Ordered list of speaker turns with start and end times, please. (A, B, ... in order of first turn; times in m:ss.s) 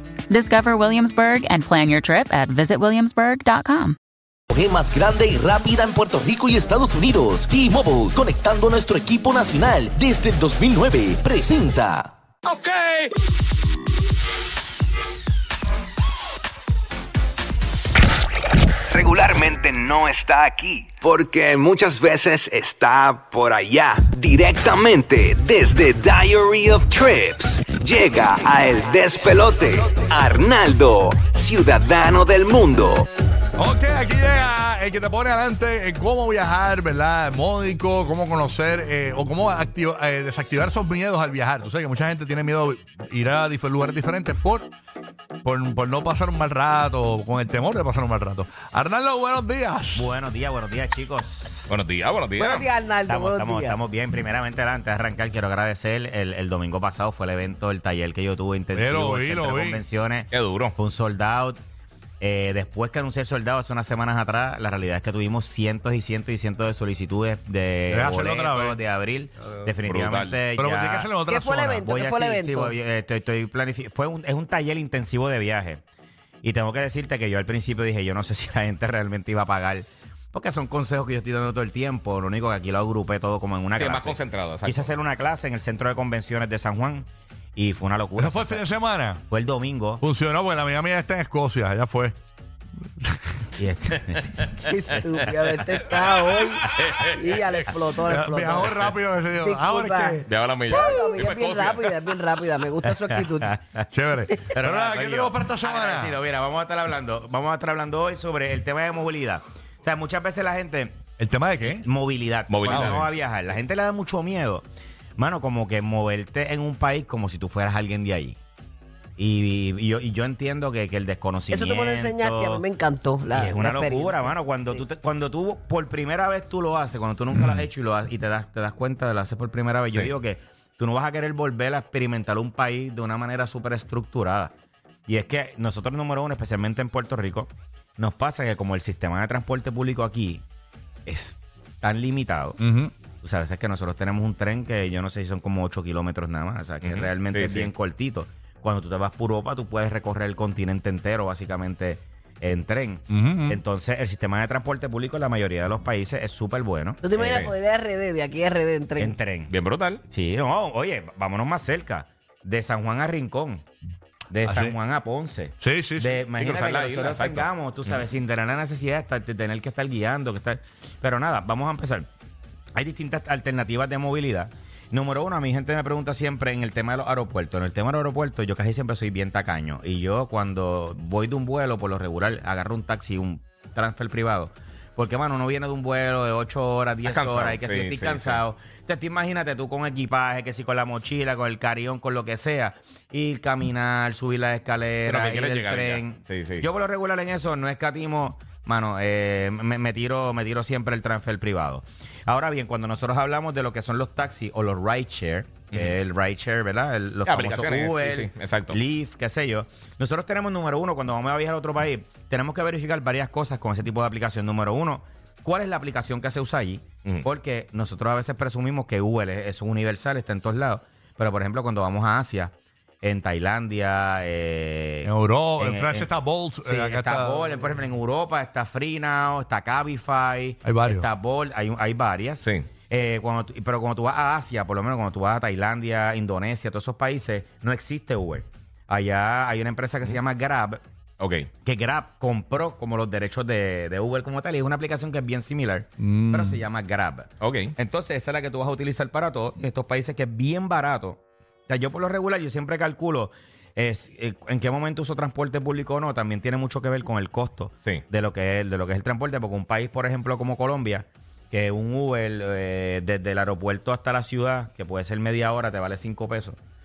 0:00.3-0:04.0 A
0:04.5-0:12.1 B
0:12.4-0:13.1 C
0:18.9-0:33.1 C
0:33.6-0:44.7 D
0:45.4-0:50.1 D
0:49.9-0:51.7 E
0:51.7-0:52.7 F
0:52.4-0:53.8 G
0:53.1-1:01.6 E
0:58.7-0:59.8 D
1:00.3-1:00.7 F
1:02.2-1:11.1 E
1:07.9-1:08.8 D
1:09.8-1:10.4 F
1:10.5-1:11.8 D
1:11.2-1:12.8 G
1:11.8-1:15.8 E
1:16.4-1:28.6 E
1:23.8-1:24.9 F
1:28.2-1:29.2 D
1:29.3-1:30.0 E
1:30.0-1:32.2 D
1:33.6-1:34.6 E
1:34.6-1:43.5 G
1:35.3-1:37.6 F
1:38.0-1:41.1 D
1:40.2-1:42.2 F
1:42.8-1:43.8 E
1:43.9-1:46.2 D
1:44.5-1:51.0 E
1:51.2-1:51.8 D
1:51.7-1:54.6 E
1:52.5-1:53.0 F
1:52.7-1:53.1 D
1:55.2-1:58.4 E
1:59.2-2:02.6 E
2:01.5-2:04.8 G
2:03.3-2:14.5 E
2:07.3-2:07.6 D
2:15.1-2:20.4 E
2:21.0-2:22.6 E
2:22.6-2:22.9 D
2:23.2-2:37.3 E
2:26.8-2:27.7 F
2:33.1-2:33.6 D
2:37.0-2:39.2 G
2:37.2-2:37.5 F
2:39.0-2:39.5 E
2:39.5-2:40.0 F
2:40.1-2:43.6 E
2:44.3-2:52.1 E
2:44.4-2:44.8 D
2:45.6-2:46.2 D
2:46.4-2:48.0 F
2:52.7-3:45.1 E
3:07.0-3:08.4 F
3:15.0-3:16.6 F
3:25.7-3:26.0 F
3:27.2-3:28.8 F
3:45.0-3:47.5 D
3:45.6-3:46.1 E
3:46.6-4:00.8 E
3:50.6-3:51.1 D
3:52.4-3:52.7 F
4:01.2-4:01.5 F
4:01.6-4:26.6 E
4:06.0-4:06.6 D
4:07.4-4:07.7 F